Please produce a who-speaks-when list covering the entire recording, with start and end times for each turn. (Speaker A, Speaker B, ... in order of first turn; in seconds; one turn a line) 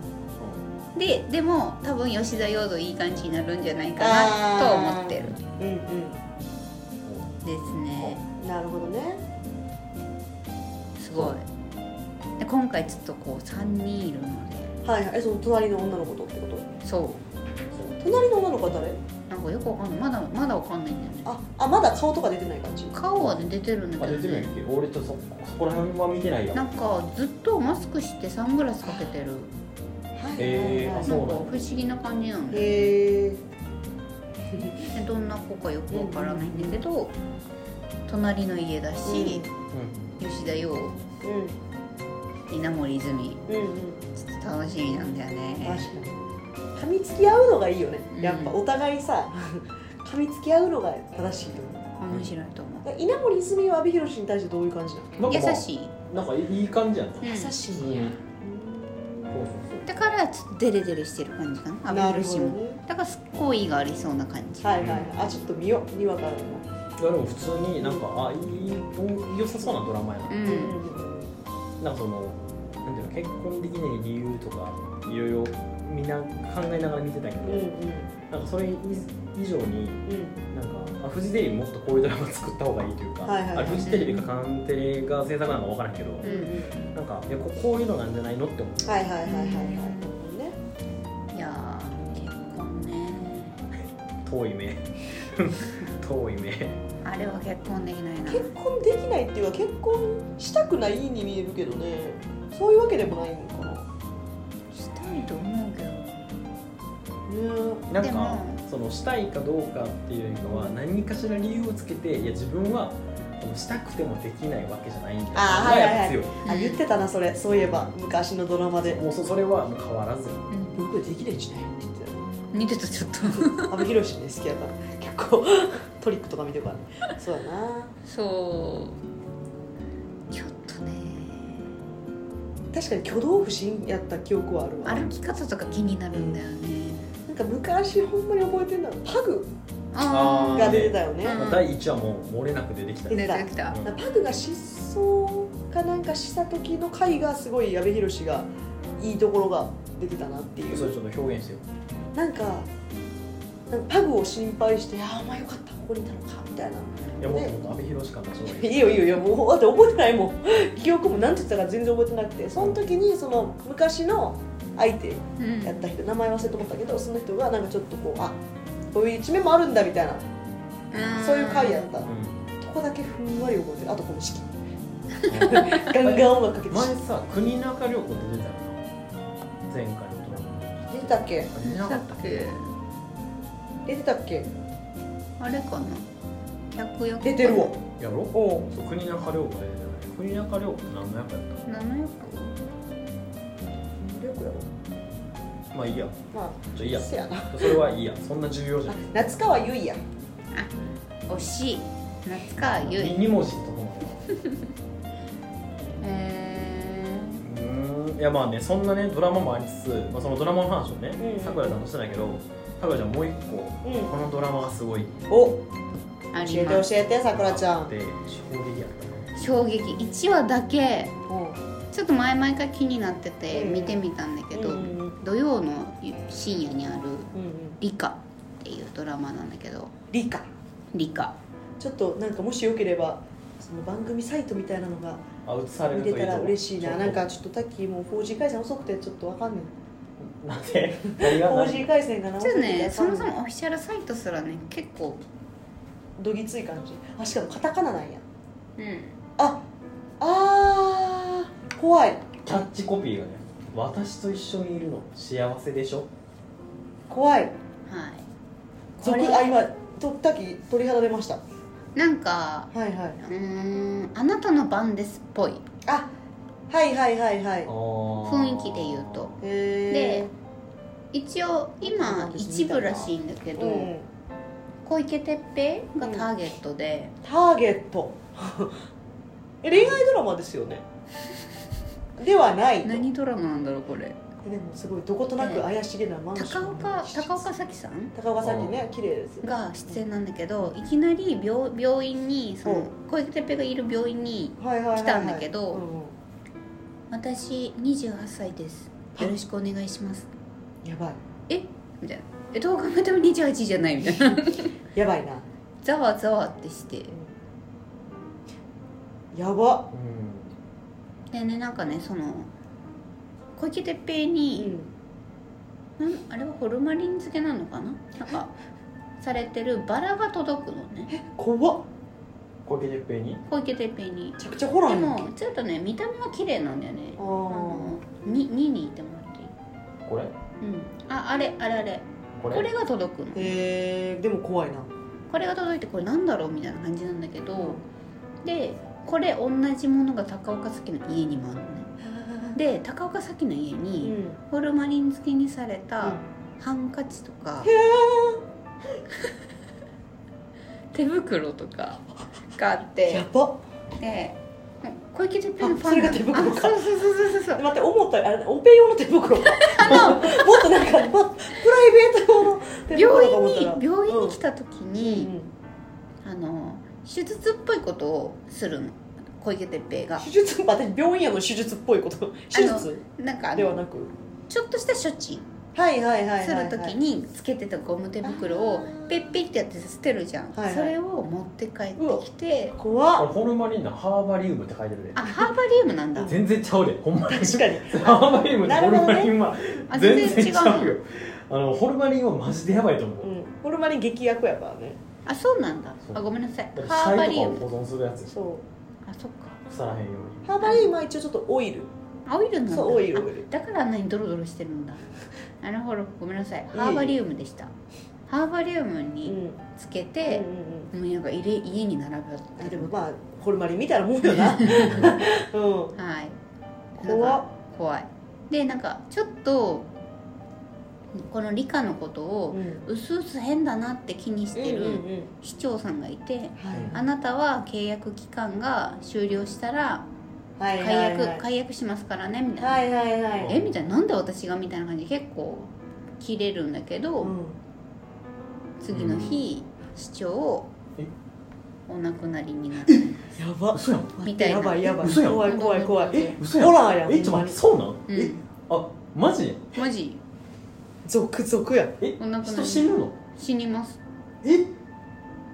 Speaker A: 0.9-5.3
Speaker B: 4.0-6.2
Speaker C: 7.0-7.3
Speaker A: 7.4-8.2
Speaker B: 8.4-9.2
Speaker A: 11.0-11.4
Speaker A: 12.4-14.7
Speaker B: 14.8-16.7
Speaker A: 16.8-17.2
Speaker C: 17.7-18.0
Speaker B: 18.0-19.0
Speaker A: 19.3-21.3
Speaker B: 21.2-22.9
Speaker A: 22.9-24.5
Speaker C: 23.1-23.5
Speaker C: 24.0-26.7
Speaker A: 26.5-29.5
Speaker B: 30.1-31.4
Speaker C: 30.4-31.5
Speaker A: 30.9-33.0
Speaker B: 32.5-33.4
Speaker B: 34.5-34.8
Speaker A: 34.9-37.1
Speaker B: 35.9-36.8
Speaker A: 38.1-39.5
Speaker B: 39.0-39.5
Speaker C: 39.7-40.2
Speaker A: 40.2-41.0
Speaker B: 41.2-41.6
Speaker A: 42.5-43.4
Speaker B: 43.5-44.0
Speaker A: 44.1-45.9
Speaker B: 45.6-46.2
Speaker B: 46.8-51.8
Speaker A: 48.1-48.5
Speaker A: 52.0-52.9
Speaker B: 52.8-55.3
Speaker C: 55.2-58.2
Speaker A: 55.3-55.9
Speaker A: 57.2-57.6
Speaker B: 57.2-59.3
Speaker C: 59.3-59.9
Speaker A: 59.9-64.8
Speaker B: 61.9-62.8
Speaker B: 64.6-66.7
Speaker C: 64.8-65.1
Speaker C: 67.0-70.4
Speaker B: 67.8-68.0
Speaker A: 70.3-70.8
Speaker B: 70.4-71.3
Speaker C: 71.8-77.7
Speaker B: 77.4-78.1
Speaker C: 78.3-86.3
Speaker B: 80.0-80.4
Speaker B: 83.2-83.9
Speaker A: 83.8-84.2
Speaker B: 86.2-86.8
Speaker A: 86.2-86.5
Speaker C: 86.9-89.1
Speaker B: 88.8-90.5
Speaker A: 89.2-90.1
Speaker A: 91.3-93.6
Speaker C: 94.2-96.8
Speaker A: 97.0-98.5
Speaker B: 98.3-103.9
Speaker A: 104.7-106.2
Speaker B: 107.3-107.9
Speaker C: 107.9-116.4
Speaker A: 108.0-108.6
Speaker B: 115.3-119.0
Speaker A: 116.4-116.8
Speaker C: 117.6-117.9
Speaker C: 118.8-120.4
Speaker A: 120.5-120.8
Speaker B: 120.7-122.3
Speaker A: 122.5-123.8
Speaker B: 123.2-127.9
Speaker A: 128.1-129.0
Speaker A: 130.3-131.7
Speaker B: 132.7-135.1
Speaker A: 134.8-137.1
Speaker B: 136.1-136.4
Speaker B: 137.3-139.5
Speaker A: 139.9-141.7
Speaker C: 140.0-143.9
Speaker B: 140.5-141.4
Speaker A: 143.1-143.8
Speaker B: 143.1-150.9
Speaker C: 150.7-151.6
Speaker B: 152.1-152.7
Speaker B: 153.7-157.5
Speaker C: 157.2-159.0
Speaker B: 158.4-168.4
Speaker A: 165.4-165.9
Speaker B: 168.9-170.2
Speaker A: 170.9-172.0
Speaker B: 171.2-174.6
Speaker C: 172.0-172.4
Speaker C: 175.2-178.8
Speaker B: 175.4-176.9
Speaker A: 175.5-175.8
Speaker C: 179.7-182.5
Speaker B: 180.9-181.5
Speaker A: 181.6-182.7
Speaker B: 183.8-184.5
Speaker A: 185.4-186.0
Speaker A: 186.7-187.7
Speaker B: 187.2-187.8
Speaker C: 188.0-191.6
Speaker B: 188.3-188.7
Speaker A: 191.7-192.5
Speaker B: 194.0-194.7
Speaker C: 195.7-196.2
Speaker B: 196.3-197.8
Speaker C: 196.7-199.4
Speaker B: 198.9-200.0
Speaker A: 201.3-203.2
Speaker C: 202.6-204.3
Speaker A: 206.0-207.4
Speaker C: 207.4-215.2
Speaker B: 211.2-211.8
Speaker B: 213.8-214.1
Speaker B: 215.3-215.6
Speaker A: 216.3-216.9
Speaker B: 216.4-217.9
Speaker C: 217.3-219.6
Speaker A: 219.4-221.1
Speaker B: 221.3-221.6
Speaker A: 221.9-229.9
Speaker B: 223.5-225.2
Speaker B: 227.3-227.8
Speaker B: 230.1-230.5
Speaker A: 230.9-231.3
Speaker B: 231.8-235.2
Speaker C: 235.4-237.2
Speaker B: 235.9-239.7
Speaker C: 240.2-241.9
Speaker B: 241.1-243.3
Speaker A: 242.4-245.2
Speaker B: 246.2-248.2
Speaker A: 248.8-249.2
Speaker B: 249.4-249.6
Speaker B: 250.2-252.2
Speaker C: 252.4-256.1
Speaker B: 257.1-257.5
Speaker A: 257.9-258.2
Speaker A: 259.0-259.5
Speaker B: 259.0-261.4
Speaker A: 261.9-265.6
Speaker B: 262.7-263.2
Speaker B: 265.9-266.1
Speaker B: 266.7-267.7
Speaker C: 267.6-269.3
Speaker A: 268.2-269.3
Speaker B: 269.4-270.3
Speaker A: 269.9-270.3
Speaker A: 271.1-273.9
Speaker B: 271.8-274.1
Speaker A: 274.8-277.1
Speaker B: 276.0-276.3
Speaker B: 277.2-278.8
Speaker B: 279.6-280.8
Speaker B: 282.2-283.1
Speaker A: 282.8-284.2
Speaker B: 284.4-287.4
Speaker A: 285.4-285.7
Speaker A: 286.3-288.1
Speaker B: 288.1-290.0
Speaker C: 288.4-288.8
Speaker A: 289.4-295.8
Speaker B: 294.6-296.1
Speaker A: 297.1-300.3
Speaker B: 300.8-301.2
Speaker A: 301.5-304.7
Speaker B: 304.0-304.3
Speaker B: 304.9-305.4
Speaker A: 305.8-307.1
Speaker B: 309.3-309.9
Speaker C: 309.9-310.5
Speaker A: 311.3-312.5
Speaker A: 313.6-314.7
Speaker B: 314.6-314.9
Speaker A: 316.0-318.5
Speaker A: 319.2-321.1
Speaker B: 321.1-321.9
Speaker C: 322.6-323.4
Speaker A: 323.5-329.5
Speaker B: 324.4-325.3
Speaker B: 327.2-328.0
Speaker C: 330.1-330.3
Speaker A: 330.6-333.6
Speaker C: 332.4-332.7
Speaker B: 333.3-334.9
Speaker A: 335.3-337.8
Speaker B: 337.5-337.8
Speaker A: 338.4-341.9
Speaker B: 342.0-342.6
Speaker A: 342.5-347.7
Speaker B: 344.0-344.4
Speaker B: 347.6-348.4
Speaker A: 350.9-353.2
Speaker B: 353.1-353.6
Speaker A: 354.0-357.6
Speaker B: 355.6-356.8
Speaker B: 357.5-364.4
Speaker A: 359.5-360.7
Speaker A: 362.9-365.3
Speaker B: 365.0-365.5
Speaker A: 366.2-370.2
Speaker B: 370.2-373.0
Speaker A: 372.5-373.8
Speaker B: 373.5-374.1
Speaker A: 374.5-375.5
Speaker B: 375.7-377.0
Speaker A: 376.4-382.8
Speaker B: 378.2-379.2
Speaker B: 380.5-380.9
Speaker B: 382.0-382.2
Speaker B: 382.8-383.3
Speaker C: 383.1-385.2
Speaker A: 385.1-386.4
Speaker B: 385.2-385.5
Speaker C: 386.2-393.3
Speaker B: 387.3-389.3
Speaker A: 389.9-390.9
Speaker B: 393.2-395.0
Speaker A: 395.2-397.6
Speaker C: 396.7-398.3
Speaker B: 398.3-398.6
Speaker A: 399.0-399.6
Speaker C: 399.6-400.5
Speaker B: 400.4-401.9
Speaker A: 400.6-400.9
Speaker A: 402.2-405.1
Speaker B: 402.7-403.5
Speaker A: 405.6-407.7
Speaker B: 406.7-407.2
Speaker A: 408.3-412.9
Speaker B: 409.2-409.6
Speaker B: 410.2-410.9
Speaker B: 412.6-415.9
Speaker A: 414.3-415.1
Speaker C: 414.7-415.2
Speaker A: 415.9-416.4
Speaker A: 416.9-419.9
Speaker B: 417.0-417.5
Speaker A: 421.1-430.1
Speaker B: 422.5-422.8
Speaker B: 424.5-425.3
Speaker B: 426.6-427.0
Speaker C: 426.7-427.0
Speaker B: 430.6-431.4
Speaker A: 430.8-432.9
Speaker B: 432.6-433.6
Speaker A: 433.4-437.3
Speaker B: 437.2-437.6
Speaker A: 438.8-440.7
Speaker C: 438.9-439.4
Speaker A: 441.9-443.2
Speaker B: 443.4-447.6
Speaker C: 443.7-444.1
Speaker A: 444.2-446.4
Speaker C: 445.0-445.5
Speaker C: 446.1-449.8
Speaker A: 448.1-448.4
Speaker A: 449.8-450.2
Speaker B: 451.0-451.9
Speaker C: 452.0-453.1
Speaker A: 452.2-454.0
Speaker C: 454.4-454.7